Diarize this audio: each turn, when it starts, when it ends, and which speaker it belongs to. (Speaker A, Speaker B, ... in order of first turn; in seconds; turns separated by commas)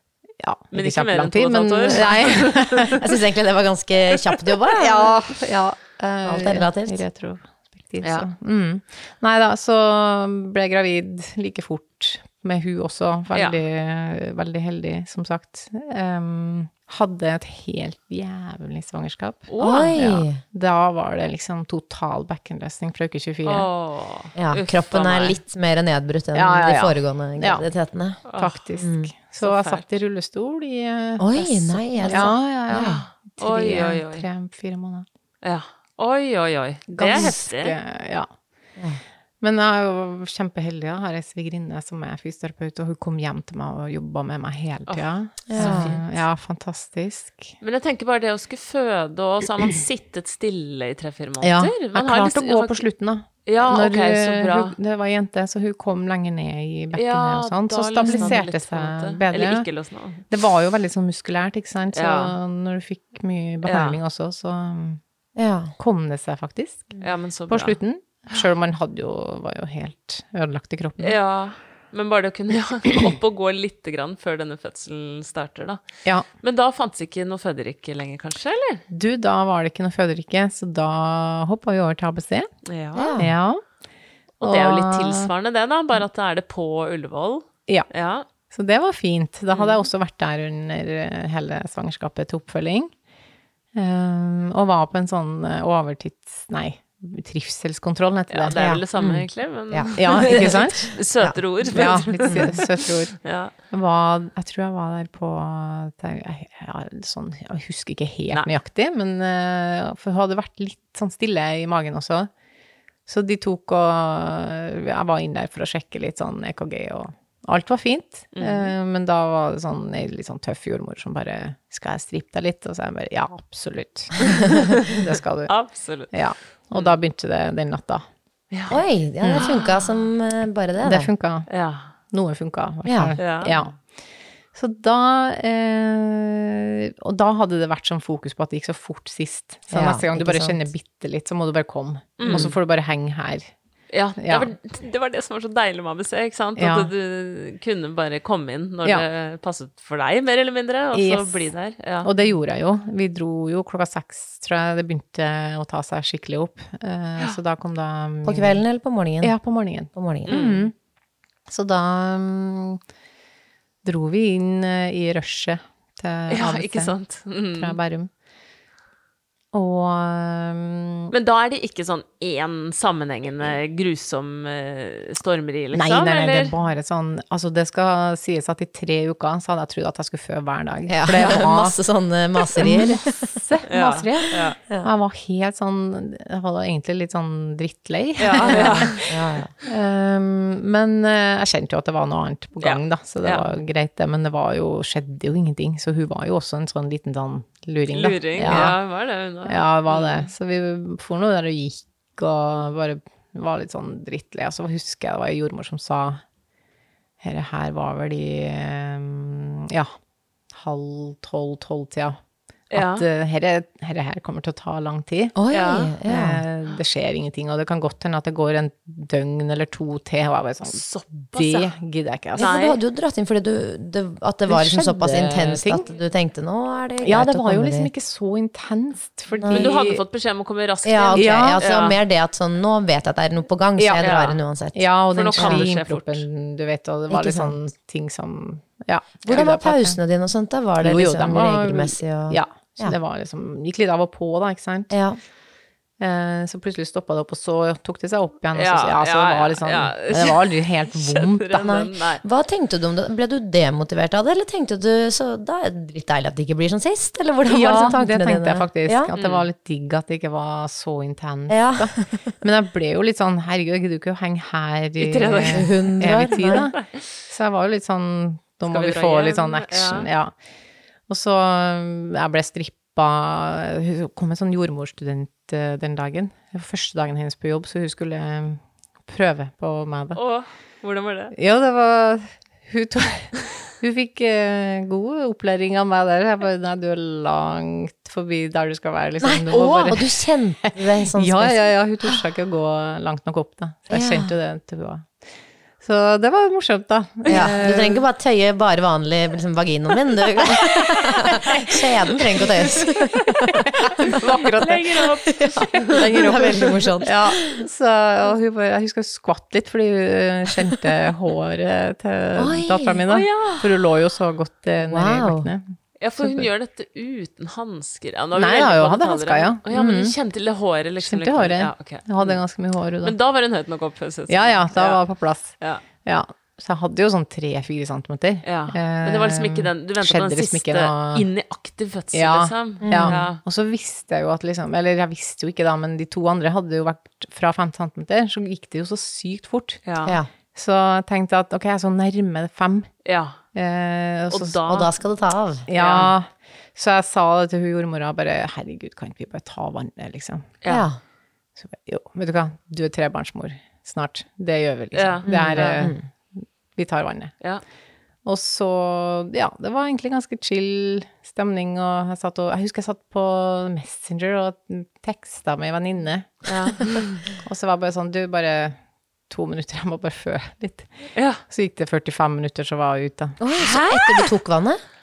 Speaker A: 0.4-3.1, Speaker B: 0.7-3.0, Speaker C: 3.0-5.1, Speaker A: 4.7-23.7, Speaker C: 6.2-7.0, Speaker B: 8.0-8.3, Speaker B: 13.3-13.6, Speaker B: 19.5-20.0, Speaker C: 19.6-20.4, Speaker B: 23.4-25.4, Speaker C: 24.4-28.2, Speaker A: 26.4-27.7, Speaker B: 28.3-28.9, Speaker A: 28.4-31.4, Speaker C: 28.8-29.1, Speaker B: 29.4-29.9, Speaker C: 31.2-33.0, Speaker B: 31.4-34.3, Speaker A: 32.1-35.1, Speaker B: 35.4-37.8, Speaker A: 36.9-38.3, Speaker A: 39.4-47.5, Speaker B: 44.9-46.2, Speaker C: 45.5-46.0, Speaker B: 47.6-52.8, Speaker A: 51.4-59.7, Speaker B: 53.5-54.8, Speaker B: 56.9-60.2, Speaker C: 58.0-58.4, Speaker A: 60.3-65.0, Speaker B: 61.9-62.4, Speaker B: 63.6-64.0, Speaker C: 65.4-65.7, Speaker A: 65.8-71.2, Speaker B: 67.0-67.8, Speaker B: 71.0-75.8, Speaker B: 76.4-78.8, Speaker A: 78.9-82.5, Speaker B: 82.7-83.2, Speaker C: 83.0-83.3, Speaker A: 83.2-83.6, Speaker B: 84.4-88.2, Speaker A: 84.4-85.3, Speaker A: 88.5-92.9, Speaker B: 89.5-89.9, Speaker A: 93.8-98.6, Speaker B: 98.3-103.5, Speaker C: 98.6-102.5, Speaker A: 100.0-101.0, Speaker A: 101.7-103.1, Speaker A: 103.7-112.3, Speaker A: 113.1-128.0, Speaker B: 118.3-118.7, Speaker B: 125.5-126.1, Speaker B: 128.5-128.8, Speaker C: 128.7-131.1, Speaker B: 129.4-130.0, Speaker A: 130.8-131.5, Speaker B: 131.5-131.9, Speaker A: 132.1-133.8, Speaker C: 132.9-133.2, Speaker B: 133.2-133.6, Speaker A: 134.6-143.5, Speaker C: 139.7-140.7, Speaker B: 142.2-142.6, Speaker C: 142.2-142.5, Speaker B: 143.9-152.1, Speaker A: 144.2-144.5, Speaker A: 146.6-146.9, Speaker A: 150.9-151.5, Speaker A: 152.0-158.6, Speaker C: 158.2-159.4, Speaker A: 159.2-160.7, Speaker C: 159.9-160.3, Speaker B: 160.3-160.7, Speaker A: 161.5-162.8, Speaker A: 163.8-166.9, Speaker B: 166.3-167.8, Speaker A: 167.6-168.1, Speaker A: 169.5-171.1, Speaker B: 171.1-176.5, Speaker A: 175.7-181.8, Speaker C: 180.9-183.3, Speaker A: 182.6-189.0, Speaker B: 183.7-184.6, Speaker B: 188.2-189.0, Speaker C: 188.4-189.5, Speaker A: 189.7-198.8, Speaker B: 192.6-193.6, Speaker B: 197.9-200.3, Speaker C: 198.4-198.7, Speaker A: 199.4-206.2, Speaker A: 207.2-209.9, Speaker A: 210.5-212.2, Speaker B: 212.7-213.1, Speaker A: 212.7-215.4, Speaker C: 215.4-216.4, Speaker B: 215.5-216.0, Speaker A: 216.1-222.5, Speaker B: 220.6-221.8, Speaker C: 222.4-227.9, Speaker B: 222.4-222.8, Speaker A: 224.5-225.9, Speaker A: 227.0-230.0, Speaker C: 229.4-229.7, Speaker B: 229.5-232.0, Speaker C: 230.8-235.7, Speaker A: 231.2-231.6, Speaker A: 233.8-234.1, Speaker B: 234.0-234.4, Speaker A: 234.7-240.0, Speaker B: 235.1-236.3, Speaker C: 237.1-237.6, Speaker C: 239.3-243.0, Speaker A: 240.8-244.9, Speaker C: 244.9-245.2, Speaker A: 246.0-251.8, Speaker B: 248.5-252.2, Speaker C: 251.6-259.1, Speaker A: 257.5-270.3, Speaker B: 259.1-259.5, Speaker C: 261.5-262.3, Speaker B: 265.0-266.8, Speaker C: 265.5-266.7, Speaker B: 268.7-270.1, Speaker A: 271.1-280.2, Speaker B: 280.1-281.3, Speaker A: 281.3-295.2, Speaker C: 289.2-292.2, Speaker C: 293.9-294.3, Speaker A: 295.8-298.1, Speaker B: 297.3-297.5, Speaker C: 297.3-304.2, Speaker A: 301.2-301.8, Speaker A: 302.3-302.9, Speaker A: 303.5-316.5, Speaker B: 304.0-306.8, Speaker C: 305.2-307.5, Speaker C: 312.4-313.0, Speaker B: 313.1-313.8, Speaker C: 314.8-315.5, Speaker B: 316.0-322.4, Speaker A: 318.3-320.1, Speaker A: 321.0-323.1, Speaker B: 323.0-325.0, Speaker A: 324.3-331.3, Speaker B: 328.4-333.4, Speaker A: 332.1-339.8, Speaker C: 332.8-333.2, Speaker B: 339.9-340.2, Speaker C: 340.1-340.3, Speaker A: 340.6-342.9, Speaker B: 343.1-343.4, Speaker A: 343.5-344.6, Speaker B: 344.3-344.9, Speaker C: 344.7-345.7, Speaker A: 345.7-350.5, Speaker B: 345.7-346.1, Speaker B: 350.6-350.9, Speaker C: 350.7-351.0, Speaker A: 351.6-356.0, Speaker B: 354.9-355.9, Speaker C: 355.2-356.0, Speaker A: 356.8-357.4, Speaker A: 358.2-368.8, Speaker B: 366.5-367.2, Speaker A: 369.3-370.9, Speaker B: 371.1-371.4, Speaker A: 371.5-373.4, Speaker C: 373.4-374.8, Speaker B: 373.6-374.3